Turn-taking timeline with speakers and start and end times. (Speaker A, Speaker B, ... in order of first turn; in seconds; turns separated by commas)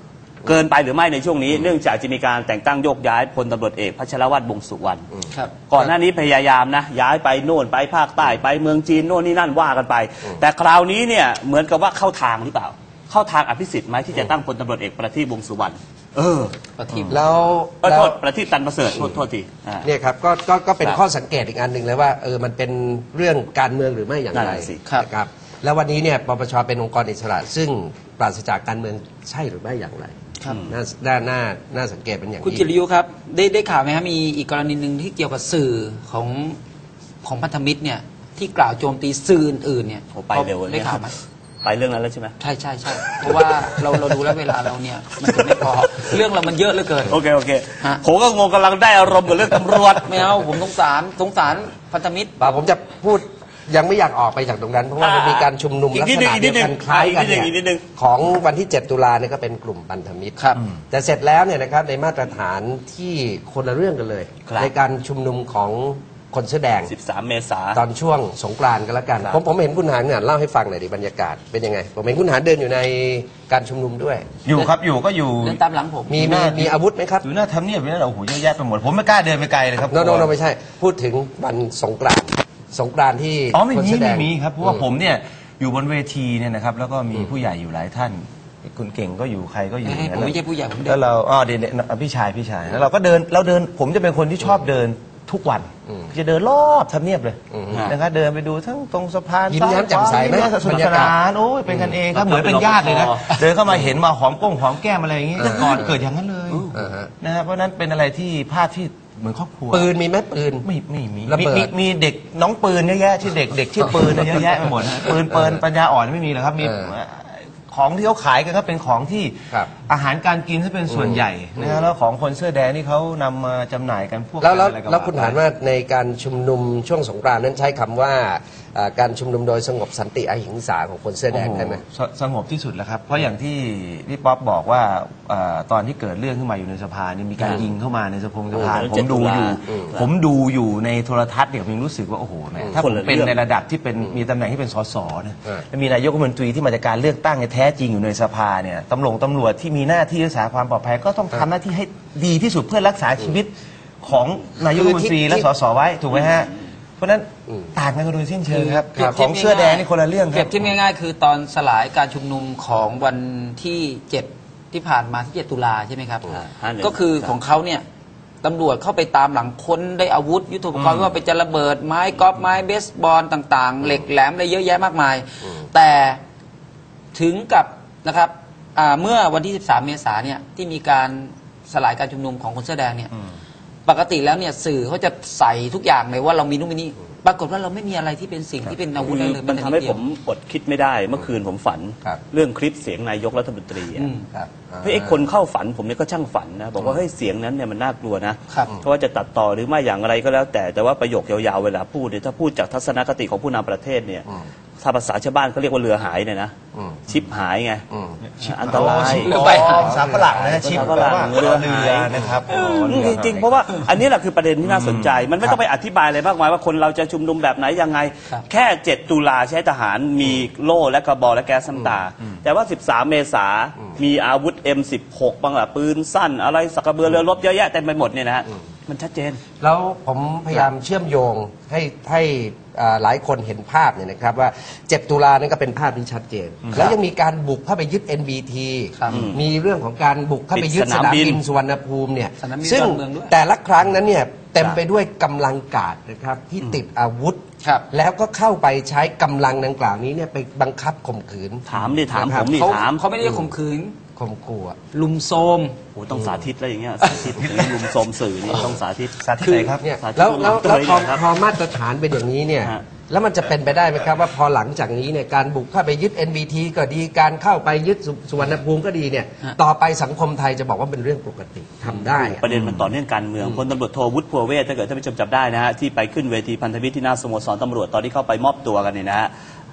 Speaker A: 0.4-5.1, Speaker B: 5.1-5.9, Speaker A: 5.7-16.5, Speaker C: 16.8-17.2, Speaker B: 17.1-18.2, Speaker A: 17.8-19.9, Speaker B: 18.9-19.2, Speaker B: 19.8-30.1, Speaker A: 24.3-24.8, Speaker A: 30.4-30.8, Speaker B: 30.7-32.7, Speaker C: 32.4-36.6, Speaker C: 37.2-41.2, Speaker A: 40.1-41.0, Speaker A: 41.6-42.3, Speaker C: 42.4-47.2, Speaker A: 43.0-44.1, Speaker A: 45.2-46.2, Speaker A: 47.1-50.4, Speaker C: 50.0-52.6, Speaker B: 52.4-66.9, Speaker A: 55.0-57.8, Speaker C: 60.4-60.6, Speaker A: 64.5-64.7, Speaker A: 66.9-67.8, Speaker B: 67.7-74.3, Speaker D: 74.4-80.3, Speaker C: 75.4-76.4, Speaker B: 76.1-77.2, Speaker B: 79.9-84.8, Speaker D: 83.5-109.9, Speaker C: 89.8-91.0, Speaker B: 97.5-97.8, Speaker B: 99.5-101.2, Speaker B: 101.7-102.0, Speaker C: 102.1-103.4, Speaker B: 105.4-106.0, Speaker B: 106.6-107.1, Speaker B: 109.7-110.7, Speaker D: 110.6-125.4, Speaker B: 111.2-111.7, Speaker B: 115.3-115.6, Speaker B: 116.6-116.9, Speaker B: 120.9-121.8, Speaker B: 124.4-131.8, Speaker D: 131.3-160.7, Speaker B: 138.5-138.8, Speaker A: 138.5-140.1, Speaker A: 142.7-143.4, Speaker B: 154.6-155.5, Speaker C: 158.5-167.8, Speaker A: 166.3-167.3, Speaker C: 168.4-176.2, Speaker D: 170.7-171.1, Speaker C: 177.1-183.1, Speaker C: 183.8-190.0, Speaker A: 189.0-194.1, Speaker C: 193.9-194.3, Speaker B: 194.3-195.2, Speaker A: 194.8-204.2, Speaker A: 204.8-206.5, Speaker B: 206.7-207.2, Speaker A: 207.1-207.8, Speaker B: 207.9-208.2, Speaker D: 208.4-213.5, Speaker A: 208.4-209.3, Speaker B: 208.7-211.2, Speaker C: 209.1-209.9, Speaker A: 210.2-212.1, Speaker B: 212.1-212.4, Speaker C: 212.5-213.1, Speaker A: 212.8-229.4, Speaker D: 214.6-215.5, Speaker B: 229.6-252.7, Speaker C: 238.9-239.3, Speaker A: 239.1-239.4, Speaker A: 240.5-241.4, Speaker C: 242.4-243.3, Speaker C: 247.6-247.9, Speaker A: 251.7-253.0, Speaker C: 252.5-254.0, Speaker B: 253.2-253.5, Speaker B: 254.2-254.8, Speaker C: 254.9-255.8, Speaker A: 255.9-259.1, Speaker B: 256.1-256.5, Speaker D: 259.2-259.8, Speaker B: 259.4-272.4, Speaker A: 260.0-261.2, Speaker A: 271.9-279.3, Speaker D: 272.4-272.9, Speaker B: 273.4-273.6